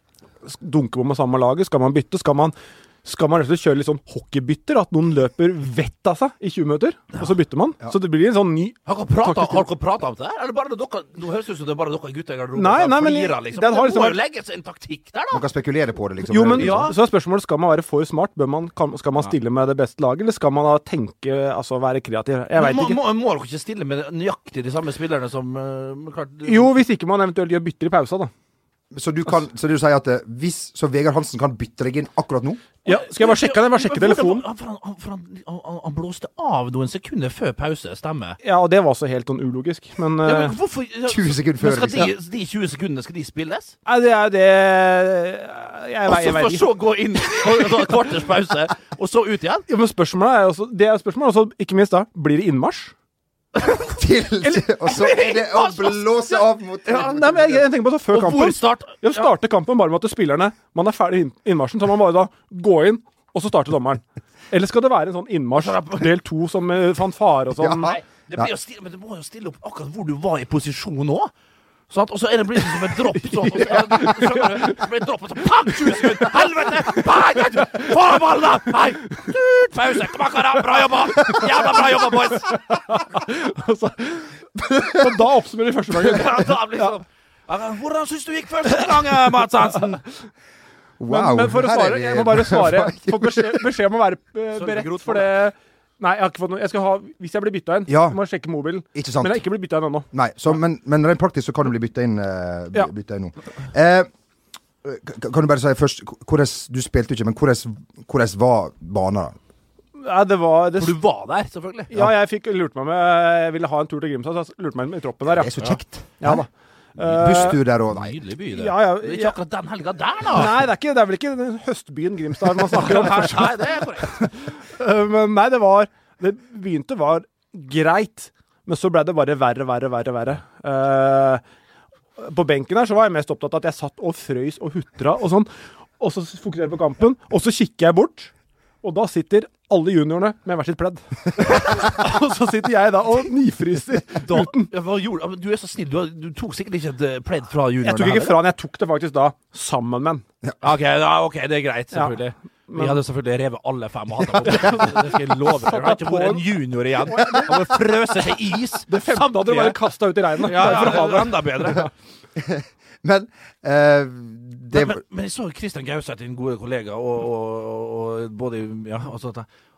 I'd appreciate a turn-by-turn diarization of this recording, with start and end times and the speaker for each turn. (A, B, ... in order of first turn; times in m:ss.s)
0:00.5-0:09.6 A
0:08.9-0:15.4 B
0:12.6-0:14.2 A
0:15.3-0:16.9 C
0:16.3-0:23.0 A
0:16.6-0:17.0 B
0:22.6-0:26.7 B
0:26.4-0:28.3 A
0:28.9-0:32.6 C
0:32.8-0:34.5 A
0:32.9-0:38.4 B
0:38.4-0:40.6 A
0:40.2-0:43.8 B
0:41.1-0:42.1 C
0:43.9-0:46.7 A
0:46.1-0:49.6 B
0:49.7-0:52.9 A
0:53.7-0:57.6 C
0:54.8-0:56.4 B
0:56.9-1:08.0 A
0:58.1-0:59.3 B
1:05.6-1:06.1 B
1:07.6-1:08.5 C
1:07.8-1:11.3 B
1:11.9-1:22.6 B
1:13.5-1:14.7 A
1:22.5-1:26.9 A
1:26.0-1:30.0 B
1:31.0-1:33.6 C
1:31.1-1:40.1 A
1:34.6-1:35.3 B
1:37.9-1:38.2 C
1:38.9-1:39.4 C
1:40.1-1:44.1 C
1:44.8-1:49.4 C
1:50.0-1:51.0 A
1:50.8-1:51.9 B
1:51.9-1:55.5 A
1:55.3-1:56.4 C
1:56.2-1:57.6 A
1:57.1-1:58.2 C
1:57.2-2:00.6 B
1:58.5-1:59.4 A
2:00.3-2:11.4 A
2:02.7-2:04.3 B
2:12.2-2:15.5 A
2:16.0-2:18.3 A
2:18.8-2:24.7 A
2:24.2-2:28.4 B
2:27.8-2:30.2 A
2:30.6-2:39.8 B
2:32.7-2:33.0 A
2:34.4-2:37.6 A
2:38.9-2:41.9 A
2:40.4-2:41.9 B
2:42.4-2:45.0 C
2:44.7-2:49.5 B